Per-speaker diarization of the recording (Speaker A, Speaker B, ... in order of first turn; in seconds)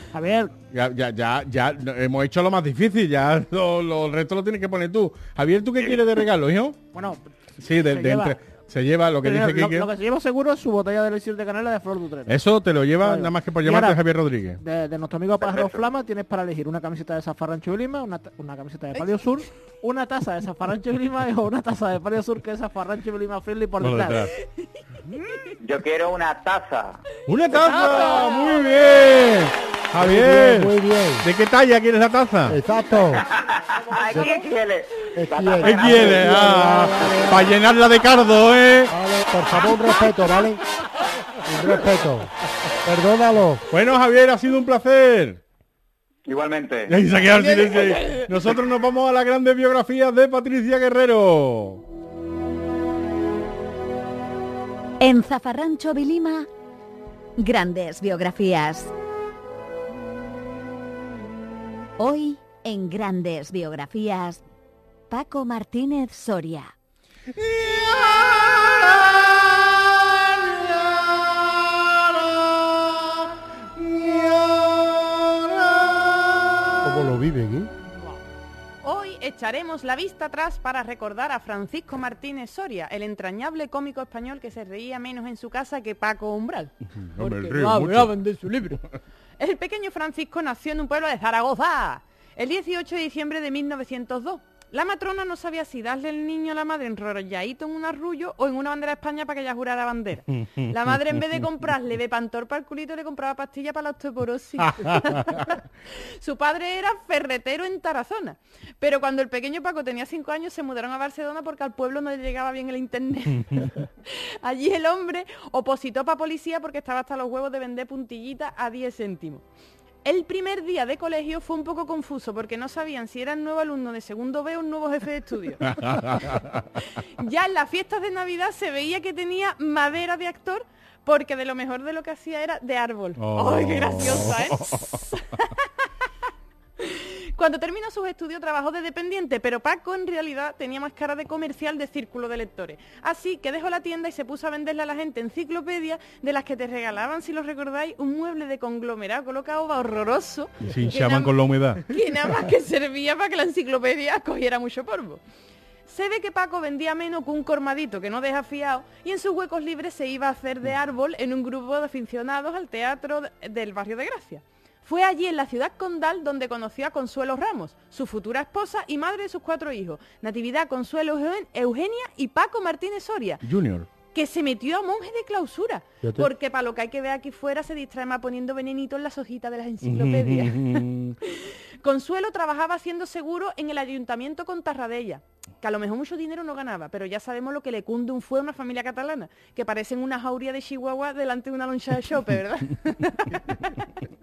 Speaker A: 0.1-0.5, 6.9-7.2, 7.8-8.4, 9.2-12.4, 13.0-14.0, 14.6-24.3, 87.2-88.8
Speaker B: 0.7-6.8, 7.6-9.9, 12.3-14.6, 23.8-24.4, 27.3-32.6, 35.6-38.9, 43.7-45.4, 46.9-51.8, 67.3-73.2, 73.8-76.8, 86.9-88.7, 100.3-101.2, 104.6-105.5, 125.7-126.8, 133.2-135.0, 150.6-151.9, 173.4-173.9, 179.8-181.2
Speaker C: 15.4-15.9, 25.6-27.0, 33.2-36.4, 46.3-47.0
Speaker D: 29.9-31.2, 32.5-33.2, 34.1-34.4, 35.1-37.5, 38.9-40.6, 41.4-42.3, 42.8-43.6, 76.8-77.7, 176.0-176.3
Speaker E: 55.0-56.5, 57.4-58.9, 62.0-64.4, 65.1-66.7
Speaker F: 78.8-86.7, 89.4-119.4, 120.0-125.8, 127.2-135.7, 136.8-155.2, 155.9-173.4, 174.1-193.8